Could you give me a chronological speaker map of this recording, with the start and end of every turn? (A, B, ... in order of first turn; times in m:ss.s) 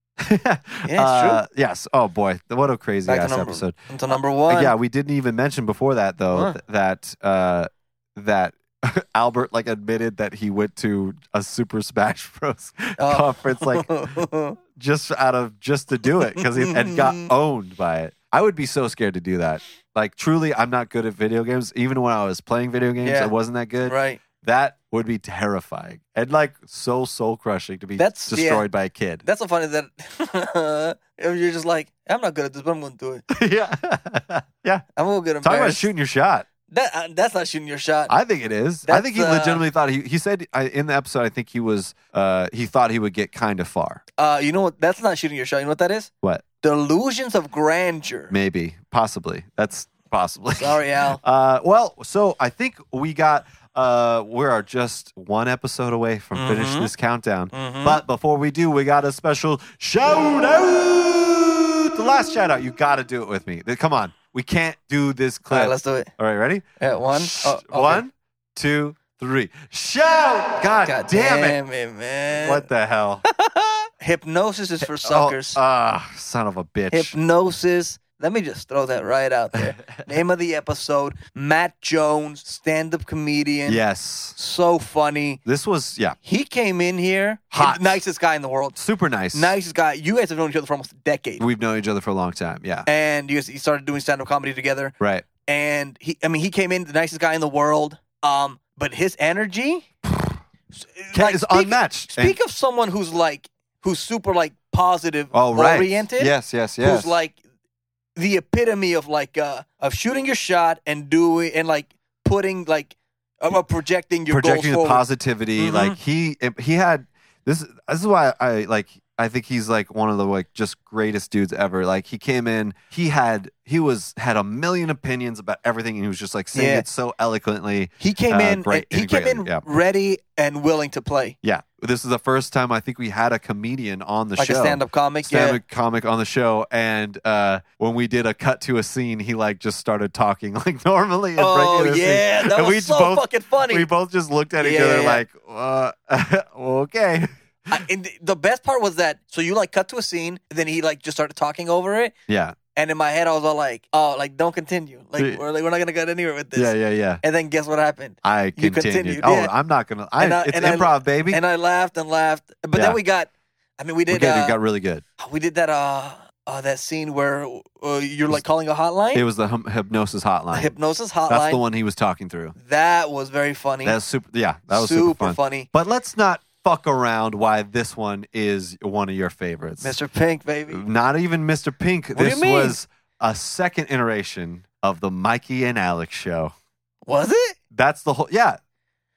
0:00.2-0:03.8 A
0:00.9-0:01.4 B
0:03.1-0:04.7 B
0:04.5-0:13.9 A
0:13.0-0:14.6 B
0:14.8-0:29.2 A
0:16.4-0:17.3 B
0:23.0-0:23.3 B
0:23.8-0:24.2 B
0:28.0-0:28.7 B
0:29.2-0:33.2 B
0:33.3-0:34.8 A
0:35.0-0:35.9 B
0:35.4-0:36.5 A
0:36.7-0:38.1 B
0:38.1-0:44.0 A
0:38.9-0:39.6 B
0:44.2-0:46.1 B
0:46.6-0:48.3 B
0:48.3-1:11.6 A
0:50.6-0:51.2 B
0:56.4-0:56.9 B
0:57.5-0:58.0 B
1:05.5-1:06.1 B
1:06.8-1:08.0 B
1:10.9-1:12.7 B
1:12.3-1:13.2 A
1:13.4-1:15.6 B
1:14.8-1:17.2 A
1:16.9-1:23.8 B
1:23.7-1:24.4 A
1:24.4-1:25.4 B
1:25.4-1:26.2 A
1:26.2-1:28.8 B
1:27.5-1:28.0 A
1:28.8-1:29.5 A
1:29.3-1:31.4 B
1:31.4-1:32.9 A
1:32.9-1:39.9 B
1:35.0-1:35.3 A
1:40.8-1:47.4 B
1:41.1-1:42.4 A
1:45.3-1:47.2 A
1:48.2-1:55.0 B
1:54.3-2:09.6 A
1:55.6-1:56.0 B
2:06.5-2:06.8 B
2:08.0-2:11.4 B
2:11.4-2:27.3 A
2:14.4-2:15.6 B
2:21.4-2:23.9 B
2:24.6-2:25.2 B
2:27.7-2:32.1 B
2:32.3-2:32.6 A
2:32.8-2:39.5 B
2:35.2-2:35.4 A
2:36.5-2:37.2 A
2:38.2-2:41.4 A
2:40.2-2:44.6 B
2:42.7-2:43.0 A
2:44.1-2:45.0 A
2:45.2-2:49.2 B
2:49.1-2:50.8 A
2:50.5-2:51.6 B
2:51.3-2:52.6 A
2:52.6-2:54.0 B
2:53.8-3:00.0 A
2:54.7-2:55.7 B
2:59.8-3:00.8 B
3:00.7-3:06.5 A
3:02.2-3:02.8 B
3:07.0-3:07.6 B
3:07.7-3:08.6 A